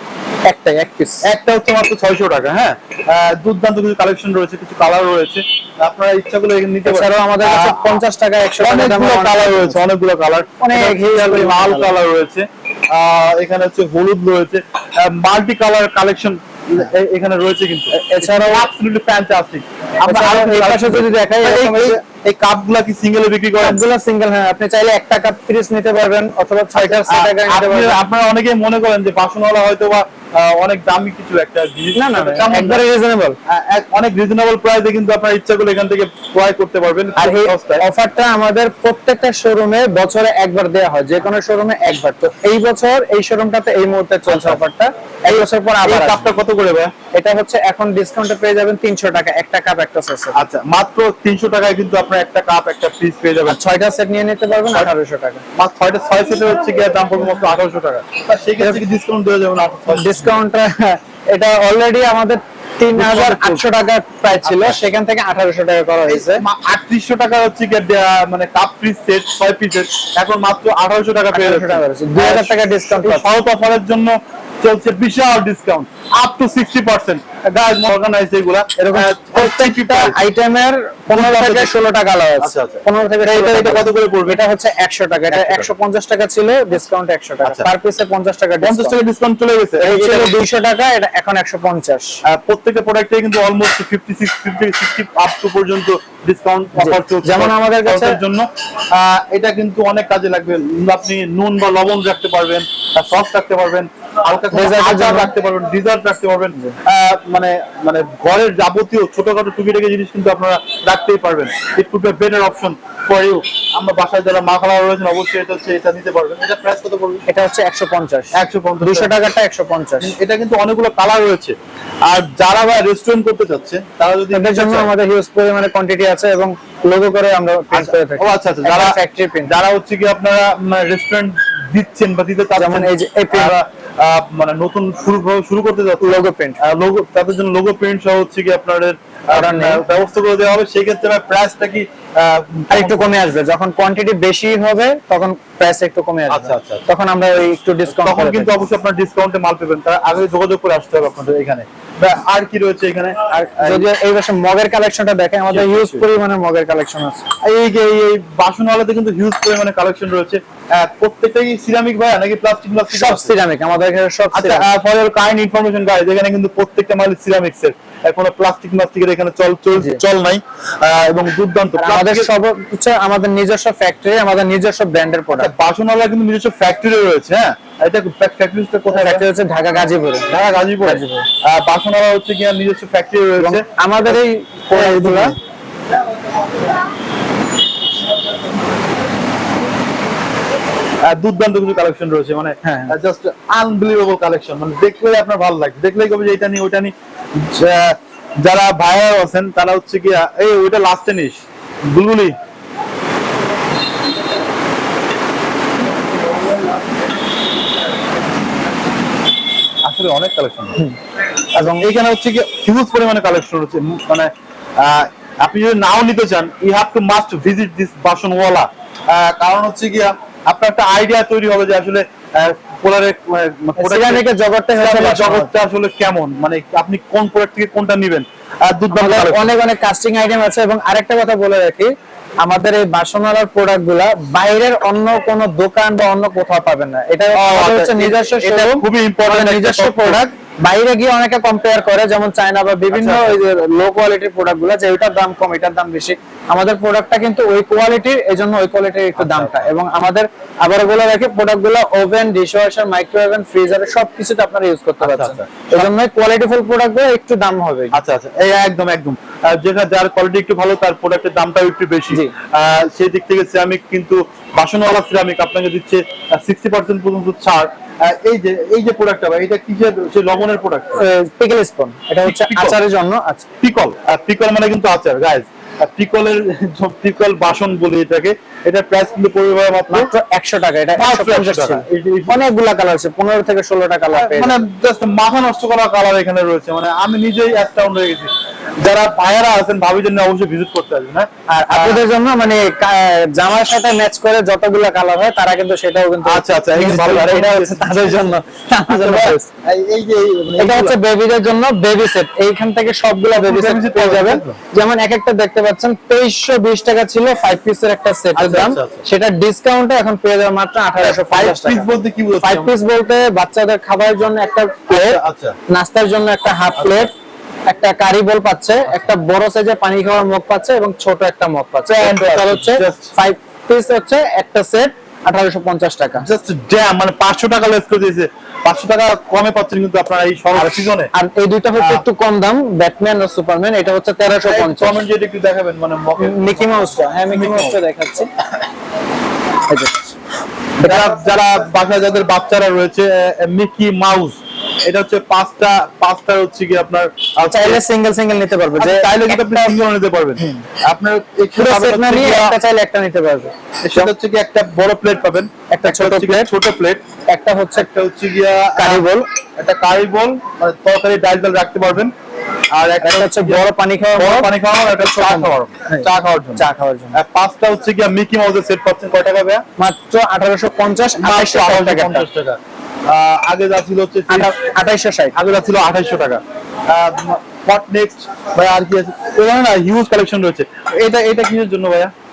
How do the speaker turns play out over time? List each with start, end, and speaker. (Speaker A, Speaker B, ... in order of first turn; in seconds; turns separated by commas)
Speaker A: 0.4-1.2, Speaker B: 1.2-8.0, Speaker A: 6.8-9.8, Speaker B: 8.6-23.8, Speaker A: 10.6-12.0, Speaker A: 17.9-18.7, Speaker A: 20.1-22.0, Speaker A: 23.6-28.0, Speaker B: 26.8-32.8, Speaker A: 31.9-33.4, Speaker B: 33.5-37.9, Speaker A: 37.2-46.3, Speaker B: 44.3-44.6, Speaker B: 45.8-46.9, Speaker A: 47.1-50.4, Speaker B: 50.3-53.6, Speaker A: 53.5-55.4, Speaker B: 55.6-60.3, Speaker A: 58.6-58.8, Speaker A: 59.9-66.4, Speaker B: 62.9-63.6, Speaker B: 64.4-64.8, Speaker B: 66.1-80.2, Speaker A: 71.3-73.3, Speaker A: 78.8-89.0, Speaker B: 81.1-81.8, Speaker B: 82.4-84.4, Speaker B: 85.3-85.7, Speaker B: 87.4-87.7, Speaker B: 88.6-90.3, Speaker A: 89.8-92.2, Speaker B: 92.2-117.2, Speaker A: 96.8-98.2, Speaker A: 104.5-105.3, Speaker A: 117.3-120.1, Speaker B: 118.3-119.2, Speaker B: 120.0-124.9, Speaker A: 124.3-129.5, Speaker B: 127.7-143.2, Speaker A: 132.6-133.6, Speaker A: 136.0-136.6, Speaker A: 139.3-139.8, Speaker A: 142.7-148.5, Speaker B: 146.3-146.9, Speaker B: 147.9-153.9, Speaker A: 153.3-157.2, Speaker B: 155.5-156.1, Speaker B: 157.4-163.3, Speaker A: 162.9-164.7, Speaker B: 164.3-172.3, Speaker A: 169.8-170.0, Speaker A: 171.8-175.5, Speaker B: 175.4-179.2, Speaker A: 178.9-180.3, Speaker B: 180.3-185.4, Speaker A: 180.8-181.2, Speaker A: 183.4-185.3, Speaker B: 191.0-202.4, Speaker A: 192.6-192.9, Speaker B: 209.8-210.8, Speaker B: 211.5-229.5, Speaker A: 211.6-211.9, Speaker A: 223.8-225.5, Speaker A: 228.9-231.9, Speaker A: 232.4-258.0, Speaker B: 237.3-240.2, Speaker B: 242.9-243.4, Speaker B: 249.2-249.7, Speaker B: 255.0-255.9, Speaker B: 257.9-271.0, Speaker A: 271.0-273.4, Speaker B: 272.2-272.8, Speaker B: 273.6-280.1, Speaker A: 279.9-284.6, Speaker B: 281.0-282.4, Speaker B: 284.1-292.0, Speaker A: 291.5-299.4, Speaker B: 296.2-298.4, Speaker B: 298.9-301.0, Speaker A: 300.6-311.9, Speaker B: 303.4-304.6, Speaker B: 308.4-309.0, Speaker B: 311.0-312.7, Speaker A: 312.4-317.1, Speaker B: 314.9-315.6, Speaker B: 316.8-317.1, Speaker A: 317.7-326.2, Speaker B: 321.9-323.1, Speaker B: 326.2-331.1, Speaker A: 330.5-335.0, Speaker B: 331.8-332.0, Speaker B: 334.2-337.8, Speaker A: 336.2-338.3, Speaker A: 339.7-339.9, Speaker A: 340.8-341.1, Speaker B: 340.8-347.8, Speaker A: 347.4-349.8, Speaker B: 348.8-352.6, Speaker A: 350.4-350.6, Speaker A: 351.6-354.1, Speaker B: 353.8-357.0, Speaker A: 355.7-356.5, Speaker A: 357.3-357.9, Speaker B: 357.8-359.0, Speaker A: 358.8-359.2, Speaker B: 359.6-362.1, Speaker B: 362.7-363.6, Speaker A: 363.0-367.2, Speaker B: 364.1-369.6, Speaker A: 369.8-372.2, Speaker B: 371.1-374.5, Speaker A: 374.3-375.4, Speaker B: 375.4-382.1